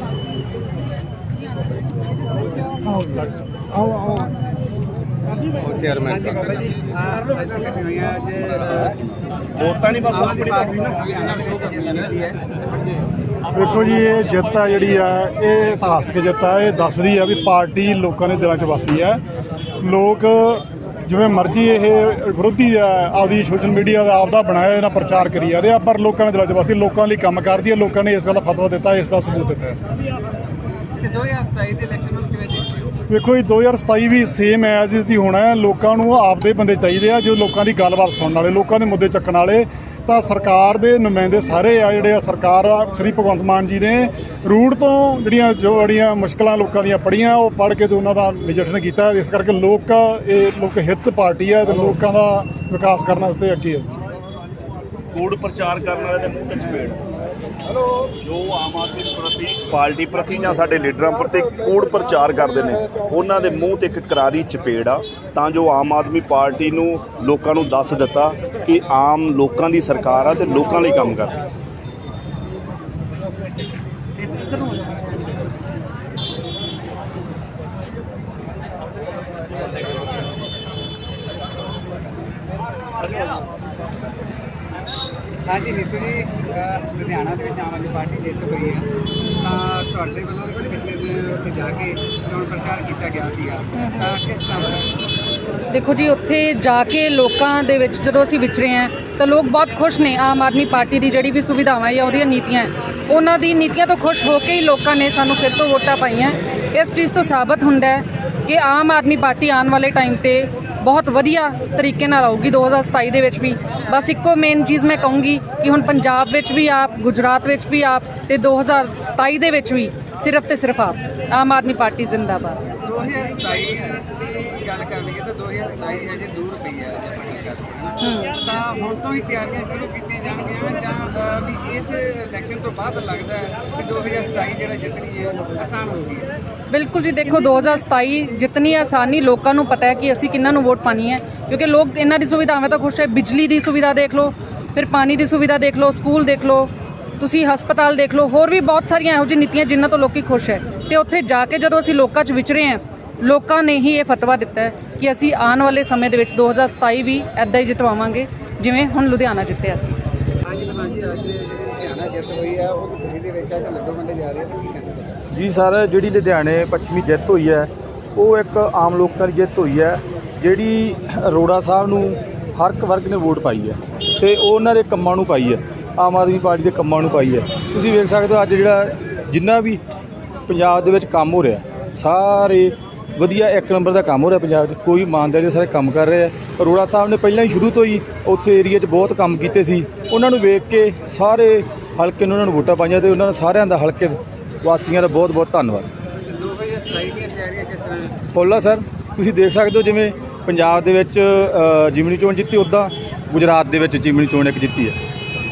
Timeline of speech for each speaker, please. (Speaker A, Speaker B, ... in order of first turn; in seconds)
Speaker A: 5.9-9.0, 10.1-12.4, 31.0-32.9, 74.2-74.9, 83.0-83.5, 85.5-88.9, 89.4-94.8, 122.8-136.3, 160.4-165.1, 196.2-198.2
Speaker B: 9.5-11.1, 55.1-57.0, 58.2-71.3
Speaker C: 13.5-19.2, 19.8-29.9, 33.1-53.9
Speaker D: 93.8-94.2, 95.7-122.7, 128.0-128.5, 136.7-159.9
Speaker E: 165.3-179.8, 180.5-195.9, 198.3-205.0